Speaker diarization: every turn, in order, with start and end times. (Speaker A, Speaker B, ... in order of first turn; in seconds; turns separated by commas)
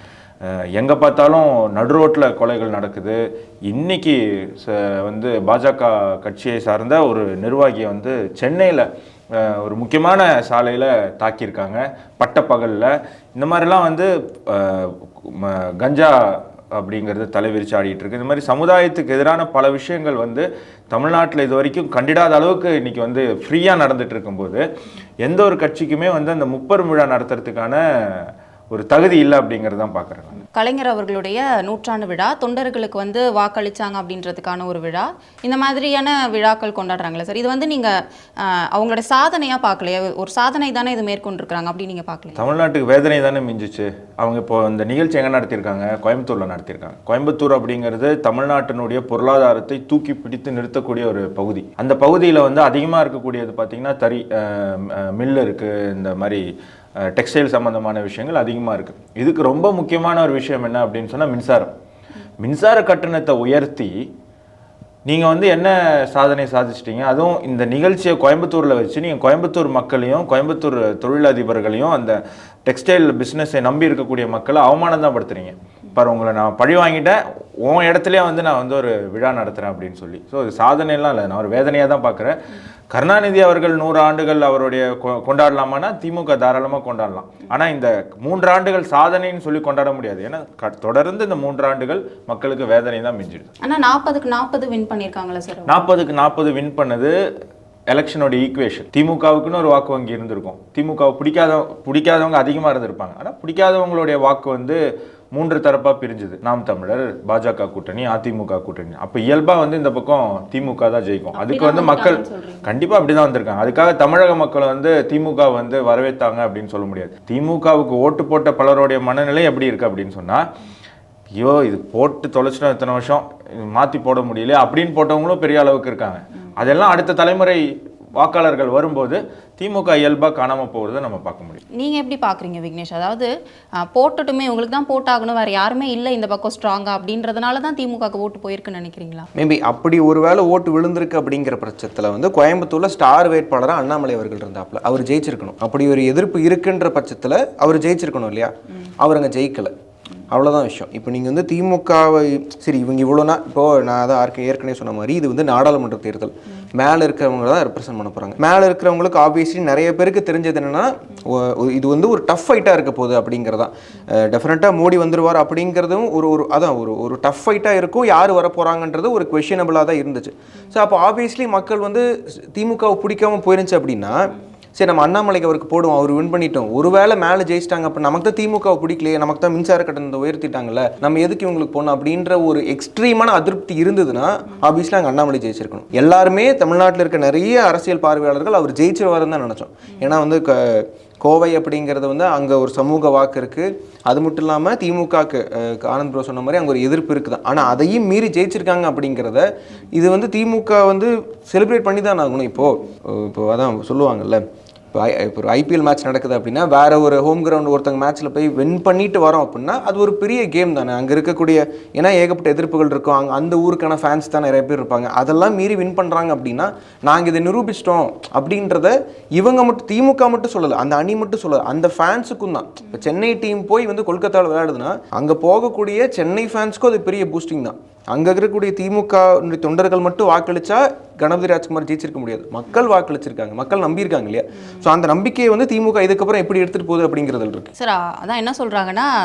Speaker A: 0.4-24.6, Speaker A: 25.2-30.4, Speaker B: 30.5-42.4, Speaker A: 42.4-56.4, Speaker A: 57.0-61.7, Speaker A: 62.4-64.1, Speaker A: 65.1-82.4, Speaker A: 82.9-93.5, Speaker B: 93.6-95.8, Speaker A: 95.7-97.2, Speaker A: 97.9-104.8, Speaker A: 105.3-120.4, Speaker B: 111.3-112.7, Speaker A: 121.4-127.6, Speaker A: 128.1-131.6, Speaker B: 131.7-139.3, Speaker C: 139.4-149.7, Speaker C: 150.3-174.2, Speaker C: 174.8-237.7, Speaker B: 237.8-239.1